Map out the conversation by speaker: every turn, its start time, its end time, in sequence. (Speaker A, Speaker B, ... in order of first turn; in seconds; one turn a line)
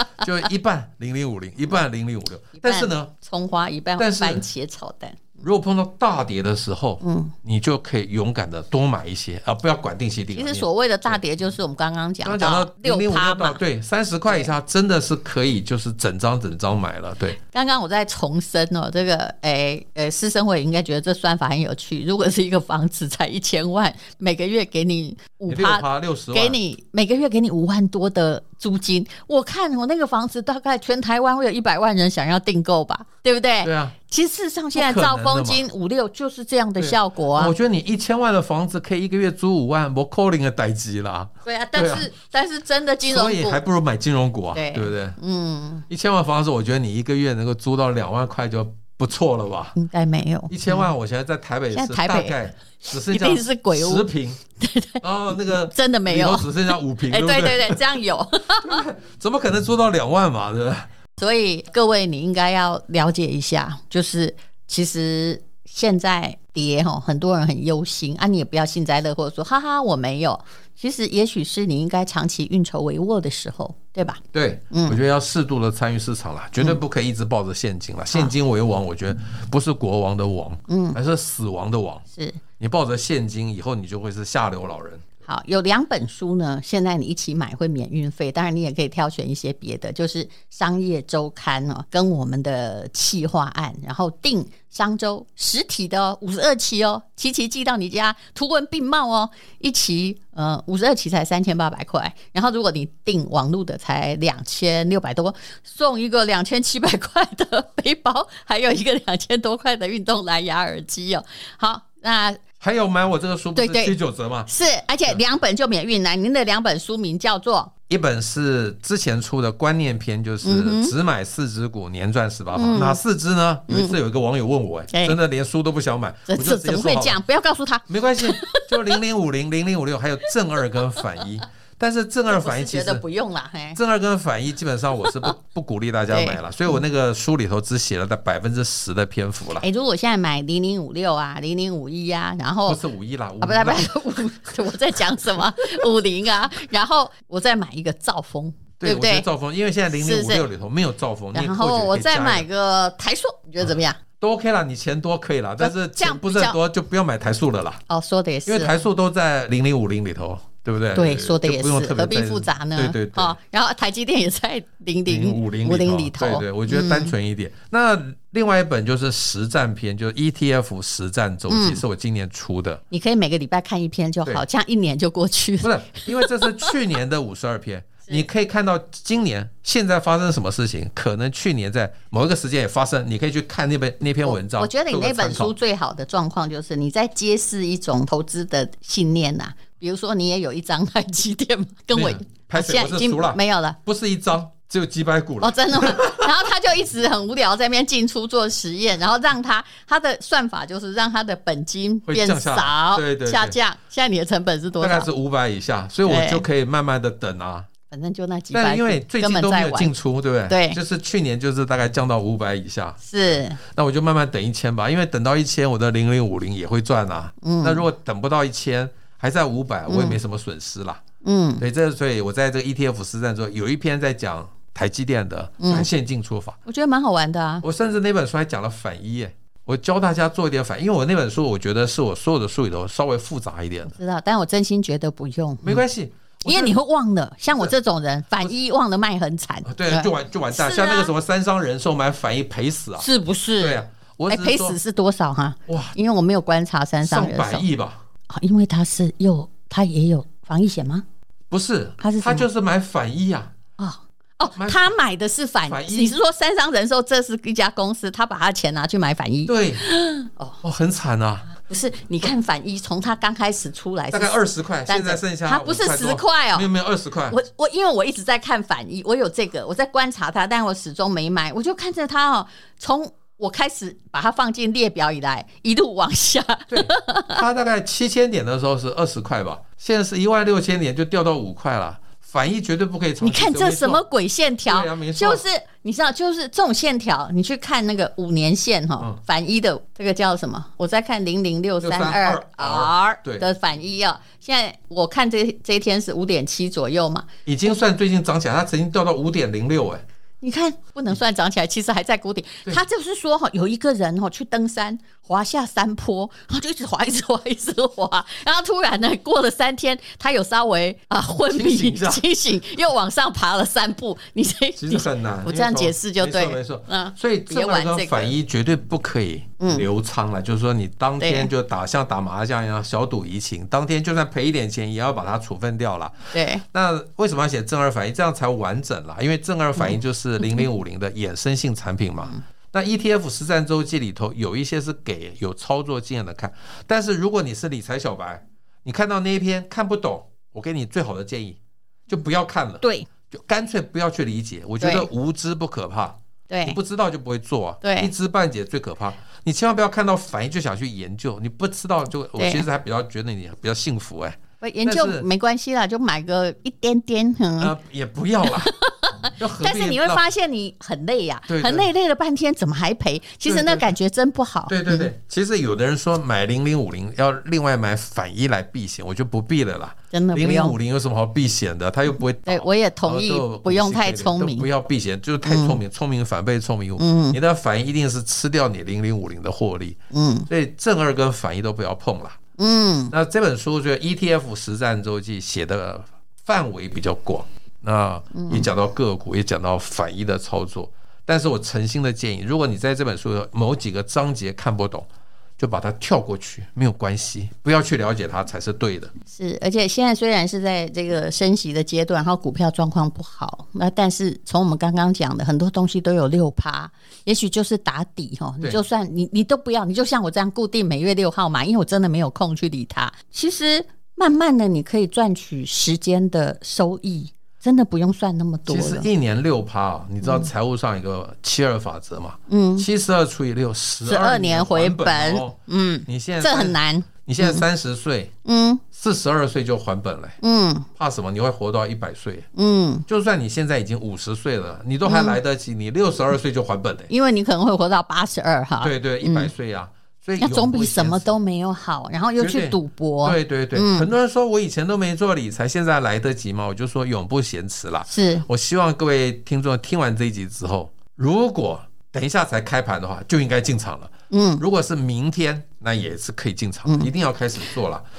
Speaker A: 0.1-3.1
Speaker B: 2.6-5.3
Speaker A: 4.0-4.5
Speaker A: 5.4-11.2
Speaker B: 7.0-7.3
Speaker B: 10.3-13.6
Speaker A: 12.2-17.4
Speaker B: 17.4-37.5
Speaker A: 25.5-26.6
Speaker A: 33.6-34.0
Speaker A: 34.8-35.7
Speaker A: 36.8-42.1
Speaker B: 41.5-43.6
Speaker A: 43.0-45.2
Speaker B: 44.5-45.9
Speaker A: 45.9-49.8
Speaker B: 49.8-50.9
Speaker A: 50.5-54.4
Speaker B: 51.7-58.9
Speaker A: 55.0-58.0
Speaker A: 58.6-60.9
Speaker B: 61.2-75.0
Speaker A: 74.3-82.0
Speaker B: 80.7-81.0
Speaker B: 82.1-82.4
Speaker A: 82.6-85.0
Speaker B: 85.3-112.4
Speaker A: 112.6-114.5
Speaker B: 113.6-114.0
Speaker B: 114.5-117.7
Speaker A: 117.9-127.2
Speaker B: 120.4-120.9
Speaker B: 122.5-123.0
Speaker B: 123.7-124.0
Speaker B: 124.9-125.2
Speaker B: 126.3-129.0
Speaker A: 127.9-133.0
Speaker B: 130.9-131.2
Speaker B: 132.3-133.8
Speaker A: 133.8-139.7
Speaker B: 136.1-136.4
Speaker B: 139.6-142.8
Speaker A: 142.7-144.0
Speaker B: 143.4-149.3
Speaker A: 148.8-152.5
Speaker B: 149.9-150.5
Speaker B: 151.3-154.0
Speaker A: 154.2-157.8
Speaker B: 155.6-156.6
Speaker B: 157.9-158.8
Speaker A: 158.5-163.4
Speaker B: 160.9-167.2
Speaker A: 165.1-172.8
Speaker B: 171.5-171.8
Speaker B: 172.9-176.8
Speaker A: 175.6-185.6
Speaker B: 184.2-193.8
Speaker A: 191.9-196.3
Speaker B: 195.4-205.1
Speaker A: 202.1-203.6
Speaker A: 204.8-207.7
Speaker B: 206.1-206.4
Speaker B: 207.9-209.9
Speaker A: 208.5-213.0
Speaker B: 210.5-210.8
Speaker B: 213.0-213.6
Speaker A: 213.6-221.0
Speaker B: 217.4-217.9
Speaker B: 219.9-220.2
Speaker B: 221.2-221.6
Speaker A: 221.6-226.6
Speaker B: 225.6-225.9
Speaker B: 226.7-227.6
Speaker A: 227.6-233.9
Speaker B: 233.9-235.8
Speaker A: 235.6-236.8
Speaker B: 236.4-241.1
Speaker A: 239.7-243.1
Speaker B: 243.0-247.7
Speaker A: 243.6-244.8
Speaker A: 245.7-245.9
Speaker A: 247.0-248.0
Speaker B: 248.3-251.1
Speaker A: 251.5-253.5
Speaker B: 252.0-252.5
Speaker B: 253.8-260.6
Speaker A: 254.5-254.8
Speaker A: 255.7-256.2
Speaker A: 259.5-259.8
Speaker A: 260.6-261.5
Speaker B: 261.5-266.7
Speaker A: 264.1-267.4
Speaker B: 267.3-277.4
Speaker A: 276.7-284.0
Speaker B: 283.2-297.3
Speaker A: 284.7-285.4
Speaker A: 291.8-293.5
Speaker A: 297.5-300.0
Speaker B: 300.4-318.4
Speaker A: 311.5-312.2
Speaker A: 314.8-355.3
Speaker B: 319.6-319.9
Speaker B: 321.2-321.5
Speaker B: 326.3-326.6
Speaker B: 329.8-330.7
Speaker B: 342.8-343.1
Speaker B: 344.8-345.1
Speaker B: 346.5-346.8
Speaker B: 347.8-348.1
Speaker B: 352.4-352.7
Speaker B: 354.6-357.8
Speaker A: 357.6-358.7
Speaker B: 358.5-365.1
Speaker A: 359.4-360.2
Speaker A: 361.5-361.9
Speaker A: 363.4-363.9
Speaker A: 364.7-380.0
Speaker B: 370.1-370.8
Speaker B: 372.4-374.7
Speaker B: 375.4-375.8
Speaker B: 377.0-377.4
Speaker B: 380.1-380.5
Speaker A: 380.5-382.4
Speaker B: 382.6-383.1
Speaker A: 383.1-395.1
Speaker B: 388.3-388.7
Speaker A: 395.6-399.1
Speaker B: 399.3-419.1
Speaker A: 418.7-428.3
Speaker B: 420.2-420.5
Speaker B: 422.5-422.9
Speaker B: 424.0-427.7
Speaker B: 428.4-428.8
Speaker A: 428.9-430.4
Speaker B: 430.4-430.9
Speaker A: 431.0-432.5
Speaker B: 432.6-433.1
Speaker A: 433.1-437.1
Speaker B: 435.0-435.4
Speaker B: 437.1-439.5
Speaker A: 438.8-441.3
Speaker B: 440.4-444.1
Speaker A: 442.4-458.1
Speaker B: 448.1-448.5
Speaker B: 454.3-454.6
Speaker B: 456.9-457.1